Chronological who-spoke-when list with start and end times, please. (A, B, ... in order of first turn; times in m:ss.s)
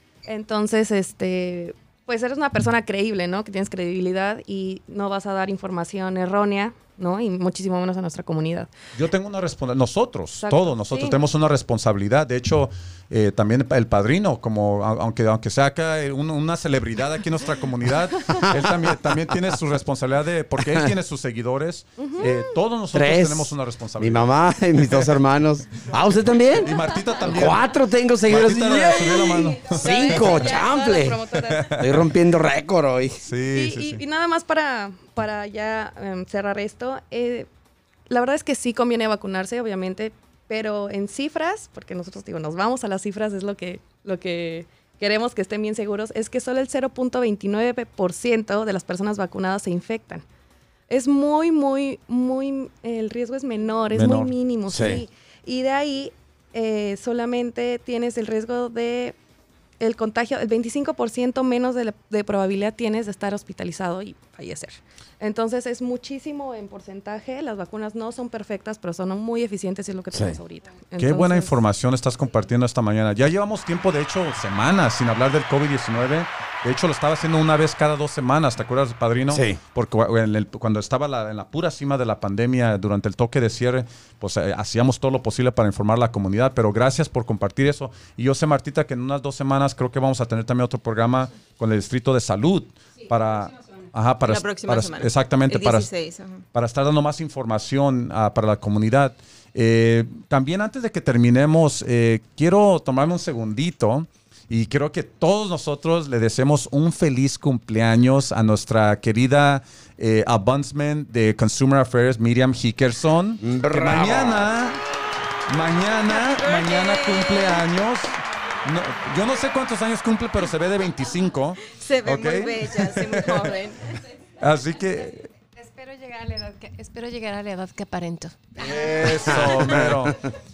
0:00.3-0:08.7 A
0:09.0-0:25.1 B
0:10.4-0:11.2 A
0:20.6-0:20.9 C
0:22.0-0:22.4 A
0:22.9-0:26.7 C
0:26.6-0:27.6 B
0:27.3-0:31.2 C
0:28.3-0:30.3 B
0:29.1-0:31.8 A
0:31.3-0:32.1 B
0:31.8-0:33.2 C
0:33.2-0:34.0 B
0:33.5-0:37.5 A
0:38.1-0:50.2 A
0:50.9-0:59.2 A
0:53.9-0:54.3 B
0:54.7-0:55.0 C
0:59.8-1:11.6 A
1:10.1-1:10.4 C
1:11.0-1:35.9 B
1:19.3-1:19.6 C
1:34.3-1:36.4 D
1:36.5-1:54.8 B
1:53.4-1:54.5 C
1:55.5-2:03.5 B
1:56.4-1:56.8 D
2:01.7-2:03.9 D
2:04.4-2:05.3 B
2:05.6-2:08.7 E
2:08.6-2:10.2 B
2:09.3-2:09.9 C